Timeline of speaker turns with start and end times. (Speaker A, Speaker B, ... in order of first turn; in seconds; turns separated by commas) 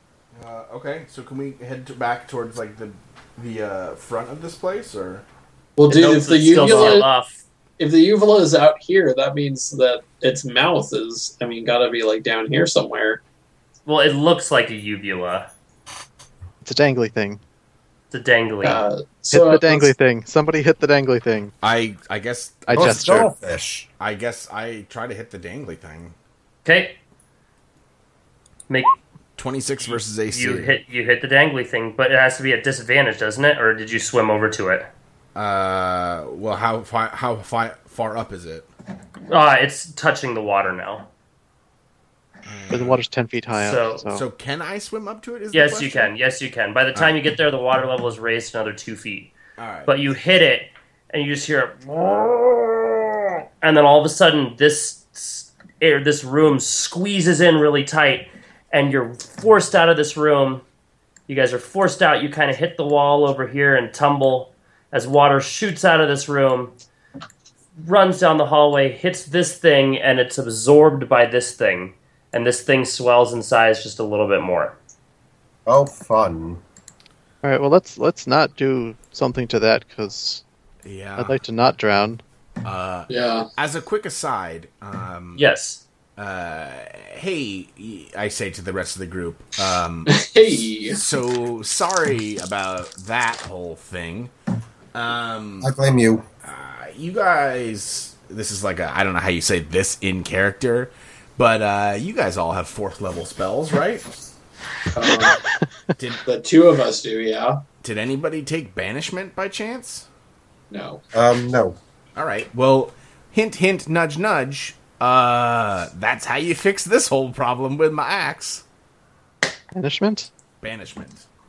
Speaker A: 0.3-5.2, Speaker B: 5.8-7.1, Speaker C: 5.9-7.4, Speaker D: 6.6-7.0, Speaker B: 7.8-13.2, Speaker C: 13.9-15.5, Speaker D: 16.6-17.4, Speaker C: 18.1-18.9, Speaker B: 18.6-19.9, Speaker D: 19.3-21.5, Speaker A: 21.6-23.3, Speaker D: 22.7-23.2, Speaker E: 22.7-23.9, Speaker A: 24.0-26.1, Speaker C: 26.6-27.0, Speaker C: 28.7-28.9, Speaker A: 29.4-30.8, Speaker C: 29.8-34.9, Speaker A: 35.3-38.7, Speaker C: 39.3-41.1, Speaker A: 42.5-43.0, Speaker D: 42.7-44.2, Speaker C: 43.5-44.0, Speaker A: 44.1-46.1, Speaker C: 45.5-49.3, Speaker A: 49.6-50.1, Speaker C: 49.9-60.6, Speaker C: 61.3-66.8, Speaker C: 67.8-74.8, Speaker E: 75.7-76.6, Speaker D: 77.4-80.4, Speaker A: 80.8-81.4, Speaker D: 81.2-82.2, Speaker A: 82.6-85.4, Speaker B: 83.1-83.5, Speaker C: 85.4-85.8, Speaker A: 86.2-90.2, Speaker B: 90.1-91.0, Speaker A: 90.9-94.3, Speaker A: 94.9-95.7, Speaker E: 95.6-96.2, Speaker A: 96.4-104.0, Speaker B: 104.9-105.4, Speaker A: 106.0-106.2, Speaker B: 106.2-107.6, Speaker A: 107.8-110.0, Speaker B: 110.7-111.0, Speaker E: 111.1-111.8, Speaker A: 112.1-118.6, Speaker D: 119.7-120.3, Speaker A: 120.6-121.2